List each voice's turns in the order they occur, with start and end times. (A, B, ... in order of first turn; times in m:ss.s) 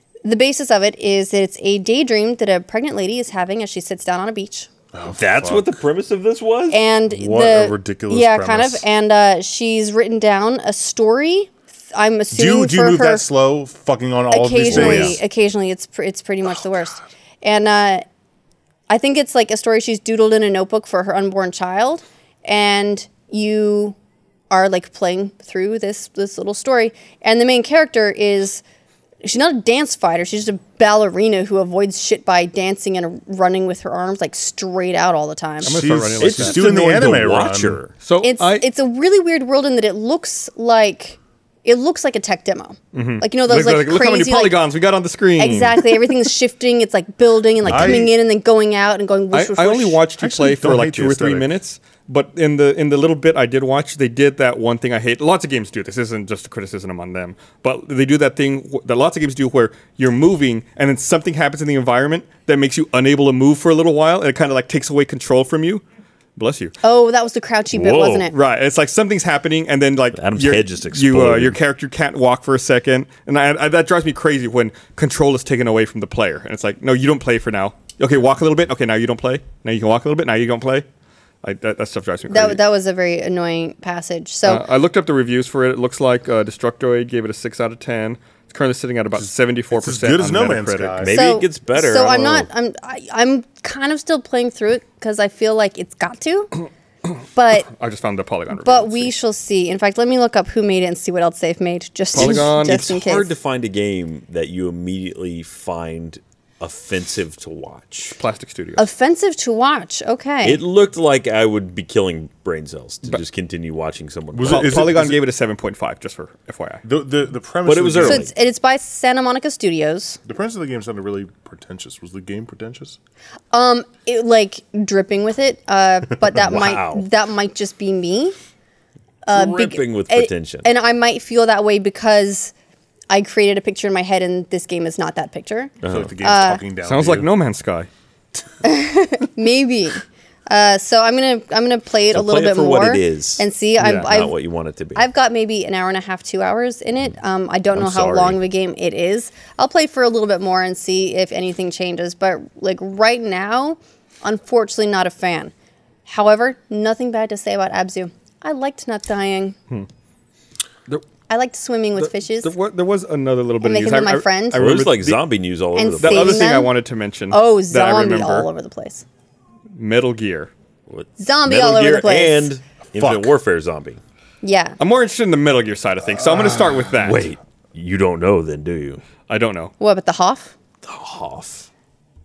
0:00.2-0:04.7 A
0:04.9-0:05.8 B
0:05.2-0:06.8 C
0:06.7-0:13.3 A
0:07.1-0:08.8 B
0:12.3-0:15.2 B
0:14.3-0:18.0 A
0:14.6-0:15.2 C
0:18.9-0:24.0 A
0:24.5-0:28.6 A
0:29.2-0:35.8 A
0:35.6-0:37.8 B
0:35.6-0:36.6 D
0:36.2-0:37.9 C
0:38.0-0:38.7 D
0:38.2-0:44.6 A
0:42.9-0:46.1 D
0:45.4-0:50.0 A
0:47.7-0:48.1 B
0:49.3-1:05.8 D
0:50.2-0:51.5 B
1:06.4-1:06.8 D
1:06.8-1:08.4 A
1:07.7-1:08.3 C
1:08.3-1:20.9 D
1:10.2-1:11.6 C
1:21.4-1:22.6 D
1:22.3-1:24.6 A
1:24.5-1:31.0 D
1:29.2-1:31.2 B
1:31.0-1:32.5 C
1:31.1-1:36.6 A
1:37.4-1:37.7 A
1:37.6-1:39.1 D
1:38.6-1:43.3 A
1:42.2-1:42.9 D
1:42.2-1:48.2 C
1:48.2-1:48.9 D
1:48.8-1:50.6 A
1:50.4-1:54.9 C
1:54.3-1:55.2 B
1:54.5-1:56.8 D
1:56.8-1:58.3 B
1:57.6-1:58.3 C
1:58.0-2:00.2 A
2:00.2-2:03.0 B
2:03.5-2:08.4 A
2:06.4-2:07.0 C
2:09.2-2:12.5 A
2:09.3-2:10.7 C
2:13.1-2:16.6 A
2:15.8-2:16.1 C
2:15.8-2:17.3 B
2:16.8-2:17.9 D
2:18.6-2:24.4 A
2:22.1-2:25.1 C
2:23.8-2:24.1 D
2:25.0-2:35.5 A
2:27.8-2:28.4 C
2:36.1-2:39.6 A
2:41.3-2:42.5 A
2:42.0-2:45.2 D
2:43.6-2:44.6 A
2:44.6-2:46.5 C
2:45.8-2:46.8 A
2:46.0-2:48.5 D
2:47.3-2:49.0 A
2:49.8-2:50.5 D
2:50.9-2:54.0 C
2:51.2-2:52.5 A
2:53.0-2:53.4 B
2:54.4-2:54.8 A
2:54.8-2:57.3 D
2:56.3-2:56.8 B
2:57.0-2:59.0 C
2:59.3-2:59.7 D
2:59.8-3:00.5 A
3:00.8-3:01.7 C